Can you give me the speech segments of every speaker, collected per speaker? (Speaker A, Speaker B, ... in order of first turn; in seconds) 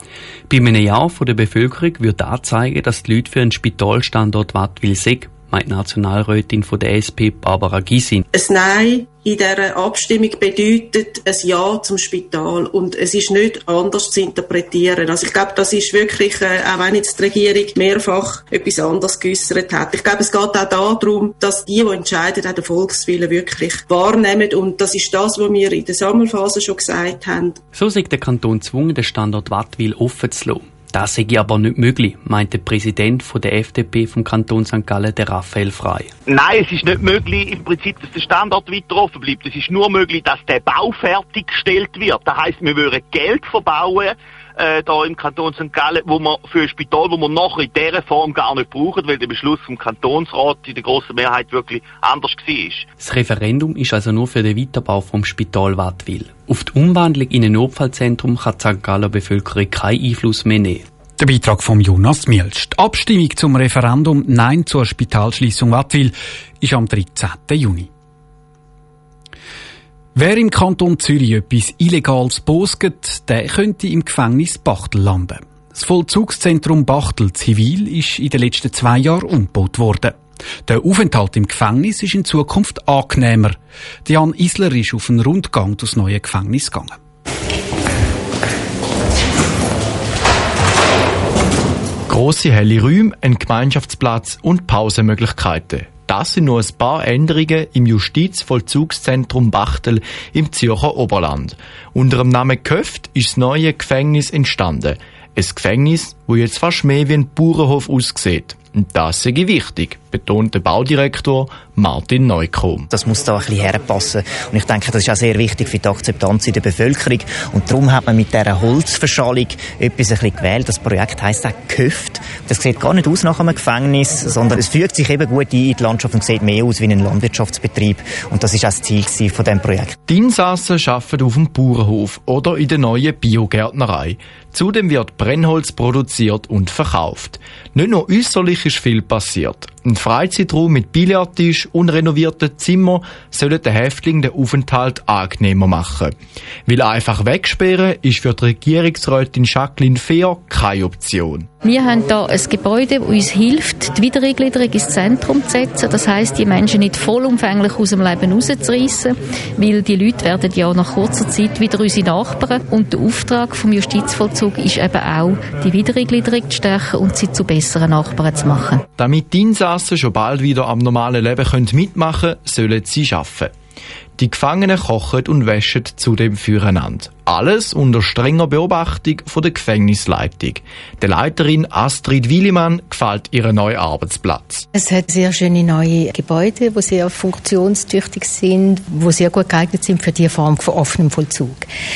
Speaker A: 0.5-8.2, 27.7-36.1, 53.0-60.8
Speaker B: 8.3-27.5
Speaker C: 36.3-52.8
Speaker D: 61.2-67.9, 70.1-87.0
Speaker E: 92.1-112.9, 130.1-146.1, 146.7-151.5, 169.0-173.5, 174.2-184.7
Speaker F: 112.9-129.9
Speaker G: 151.6-168.8
Speaker H: 184.7-191.6